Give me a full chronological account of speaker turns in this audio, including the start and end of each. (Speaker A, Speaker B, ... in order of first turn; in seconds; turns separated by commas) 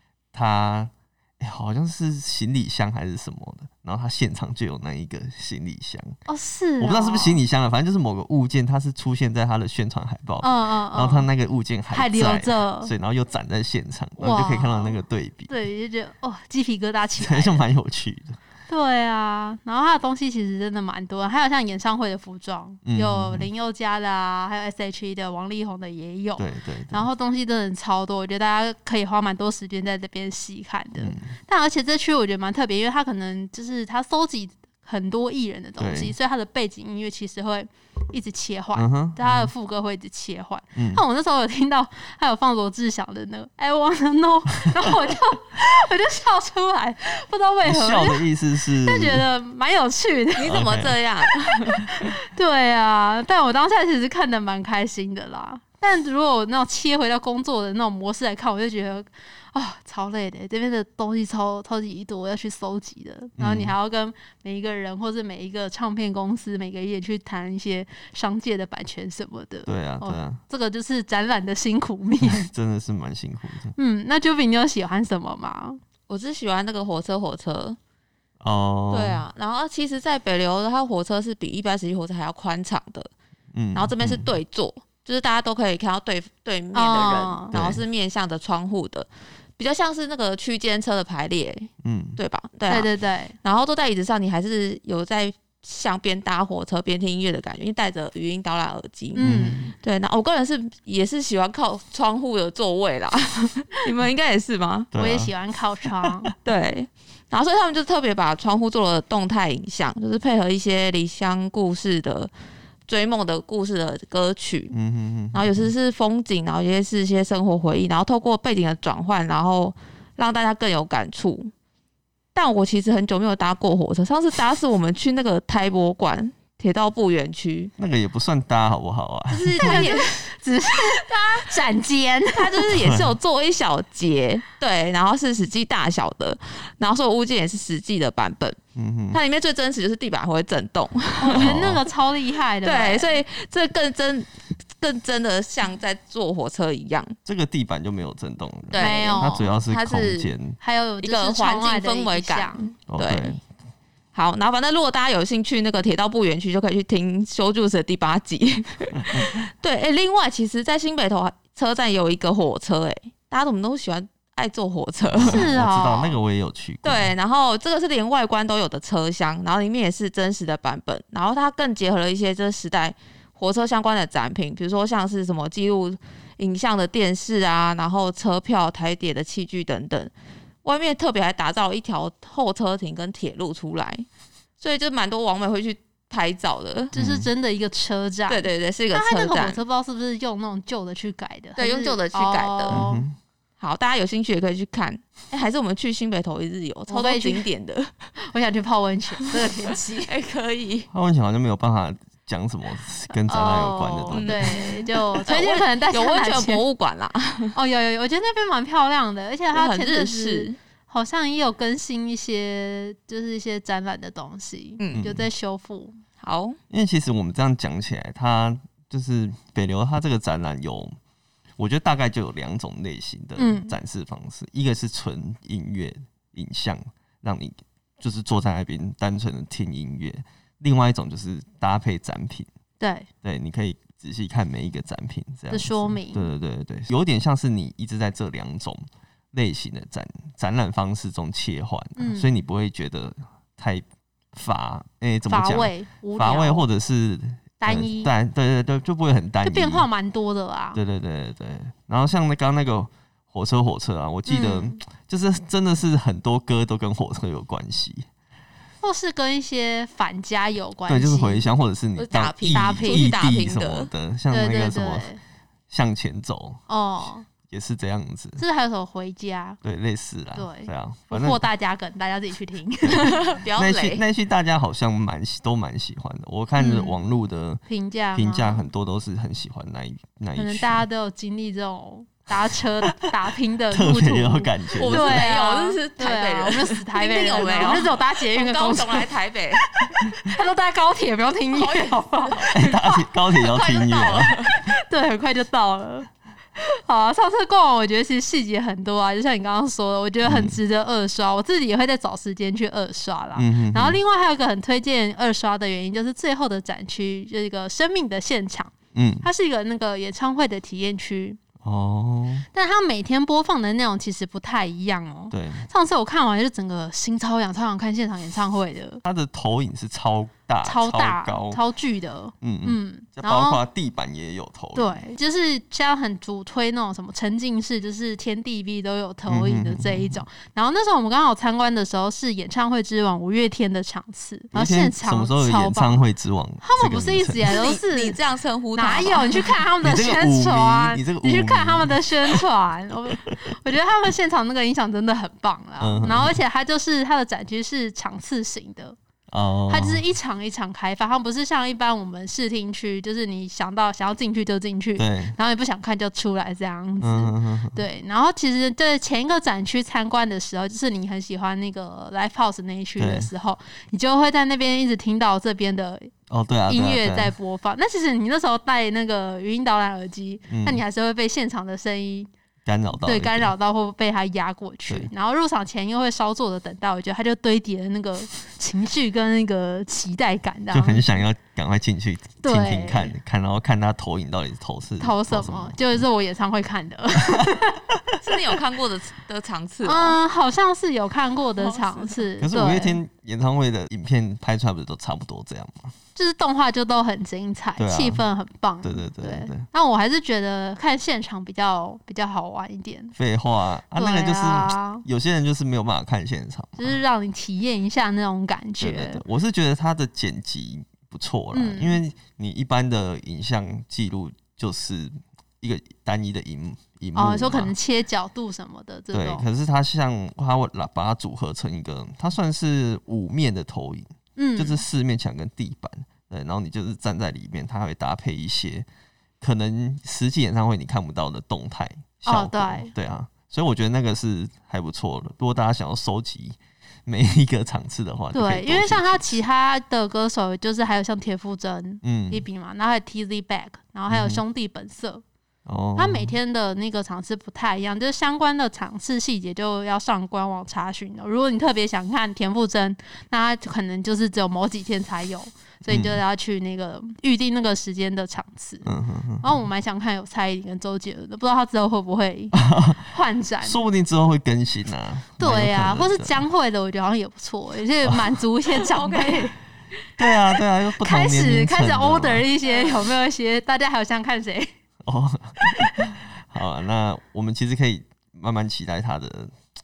Speaker A: 0.3-6.2, Speaker B: 6.3-7.4, Speaker A: 6.8-15.5, Speaker B: 10.4-11.3, Speaker B: 11.9-12.9, Speaker B: 14.2-15.0, Speaker B: 15.5-17.6, Speaker A: 17.2-18.4, Speaker B: 18.7-48.2, Speaker A: 22.8-23.5, Speaker A: 26.4-27.1, Speaker A: 31.0-31.3, Speaker A: 35.8-36.1, Speaker A: 38.8-39.5, Speaker A: 40.8-41.0, Speaker A: 44.7-45.1, Speaker A: 47.6-49.3, Speaker B: 48.8-50.6, Speaker C: 50.4-51.9, Speaker A: 50.4-51.0, Speaker B: 51.7-72.5, Speaker A: 63.4-63.8, Speaker A: 69.7-70.4, Speaker A: 72.2-73.8, Speaker B: 73.8-75.8, Speaker C: 76.1-77.8, Speaker A: 78.4-79.3, Speaker C: 78.9-83.1, Speaker A: 83.5-84.3, Speaker C: 83.8-92.9, Speaker B: 86.7-87.5, Speaker A: 87.5-87.8, Speaker A: 91.8-92.2, Speaker B: 92.7-93.4, Speaker C: 93.4-99.3, Speaker B: 99.1-99.7, Speaker A: 99.2-99.7, Speaker C: 99.8-104.9, Speaker A: 104.9-105.3, Speaker B: 105.0-106.3, Speaker C: 106.4-112.3, Speaker C: 112.9-114.8, Speaker A: 114.7-115.7, Speaker C: 115.3-121.5, Speaker C: 122.3-127.7, Speaker A: 127.8-129.9, Speaker B: 129.3-132.6, Speaker C: 129.4-131.1, Speaker C: 132.3-138.6, Speaker A: 132.7-133.2, Speaker A: 138.8-139.2, Speaker C: 139.1-141.6, Speaker B: 141.2-143.2, Speaker A: 141.3-141.8, Speaker C: 142.6-147.2, Speaker A: 147.2-150.6, Speaker C: 148.7-150.3, Speaker B: 148.8-149.5, Speaker B: 150.6-152.7, Speaker C: 151.0-153.4, Speaker A: 152.9-153.4, Speaker C: 154.1-165.5, Speaker A: 159.1-159.3, Speaker A: 165.1-167.1, Speaker B: 165.2-166.2, Speaker C: 166.8-180.1, Speaker C: 180.6-184.1, Speaker C: 184.6-186.9, Speaker A: 186.9-187.3, Speaker B: 186.9-193.1, Speaker C: 188.3-189.6, Speaker C: 191.6-192.8, Speaker A: 192.7-193.2, Speaker C: 193.6-198.1, Speaker B: 196.9-197.4, Speaker B: 198.3-200.1, Speaker C: 200.1-200.9, Speaker A: 200.9-204.6, Speaker B: 203.3-206.6, Speaker C: 204.1-207.6, Speaker B: 207.6-216.0, Speaker C: 209.5-210.6, Speaker C: 214.8-215.1, Speaker A: 214.9-215.3, Speaker C: 216.2-216.6, Speaker A: 216.7-221.0, Speaker A: 221.6-232.5, Speaker B: 223.4-223.7, Speaker B: 232.8-233.1, Speaker A: 233.2-249.9, Speaker B: 235.5-236.3, Speaker B: 242.0-242.3, Speaker B: 245.3-246.7, Speaker B: 247.6-248.1, Speaker B: 249.4-250.8, Speaker A: 250.7-258.1, Speaker B: 254.3-254.8, Speaker B: 258.8-261.5, Speaker A: 260.9-265.1, Speaker C: 262.0-263.9, Speaker B: 262.5-263.2, Speaker B: 264.3-265.2, Speaker A: 265.7-266.7, Speaker B: 266.7-267.3, Speaker A: 267.5-268.4, Speaker B: 268.4-269.6, Speaker A: 269.6-271.4, Speaker B: 270.4-273.2, Speaker A: 272.8-277.6, Speaker C: 273.0-274.0, Speaker B: 276.6-277.0, Speaker B: 277.7-278.6, Speaker A: 278.1-280.9, Speaker B: 280.4-289.1, Speaker A: 283.7-285.3, Speaker C: 284.8-289.7, Speaker B: 289.7-293.1, Speaker C: 291.5-292.6, Speaker A: 292.5-294.4, Speaker C: 293.4-294.6, Speaker B: 294.5-311.4, Speaker A: 300.2-300.6, Speaker A: 303.4-304.0, Speaker A: 308.9-309.3, Speaker A: 311.6-312.5, Speaker B: 312.5-319.0, Speaker A: 315.3-315.7, Speaker A: 319.1-321.6, Speaker B: 320.6-323.6, Speaker A: 322.4-325.0, Speaker B: 324.8-336.1, Speaker A: 329.3-330.2, Speaker A: 334.5-337.6, Speaker B: 336.6-338.2, Speaker C: 337.5-339.6, Speaker B: 338.7-349.0, Speaker A: 339.8-342.4, Speaker A: 345.8-346.4, Speaker A: 349.3-350.0, Speaker B: 349.7-366.1, Speaker A: 355.0-355.4, Speaker A: 357.0-357.8, Speaker A: 363.0-363.3, Speaker A: 366.3-367.3, Speaker B: 366.7-372.3, Speaker A: 370.5-370.8, Speaker A: 372.6-373.5, Speaker B: 373.0-381.1, Speaker A: 380.7-386.0, Speaker B: 382.4-383.1, Speaker B: 385.0-387.8, Speaker A: 387.3-388.1, Speaker C: 388.2-390.2, Speaker B: 389.8-393.0, Speaker C: 391.6-392.3, Speaker A: 392.4-395.9, Speaker B: 396.2-403.1, Speaker A: 397.8-398.2, Speaker A: 398.8-399.7, Speaker A: 403.1-407.0, Speaker B: 404.0-405.1, Speaker B: 406.8-409.2, Speaker A: 408.8-417.7, Speaker B: 411.5-412.0, Speaker B: 417.1-419.5, Speaker A: 419.1-428.9, Speaker B: 424.4-424.8, Speaker A: 429.4-439.4, Speaker B: 432.3-432.9, Speaker B: 438.3-445.2, Speaker A: 442.0-442.4, Speaker A: 444.1-444.4, Speaker A: 445.7-446.4, Speaker B: 446.0-458.9, Speaker A: 455.8-456.2, Speaker A: 458.8-459.6, Speaker B: 459.4-463.8, Speaker A: 462.5-463.1, Speaker A: 463.6-466.4, Speaker B: 465.4-469.6, Speaker A: 468.1-468.7, Speaker C: 469.0-469.4, Speaker A: 470.2-472.5, Speaker B: 471.0-474.7, Speaker A: 475.0-479.5, Speaker B: 475.8-476.1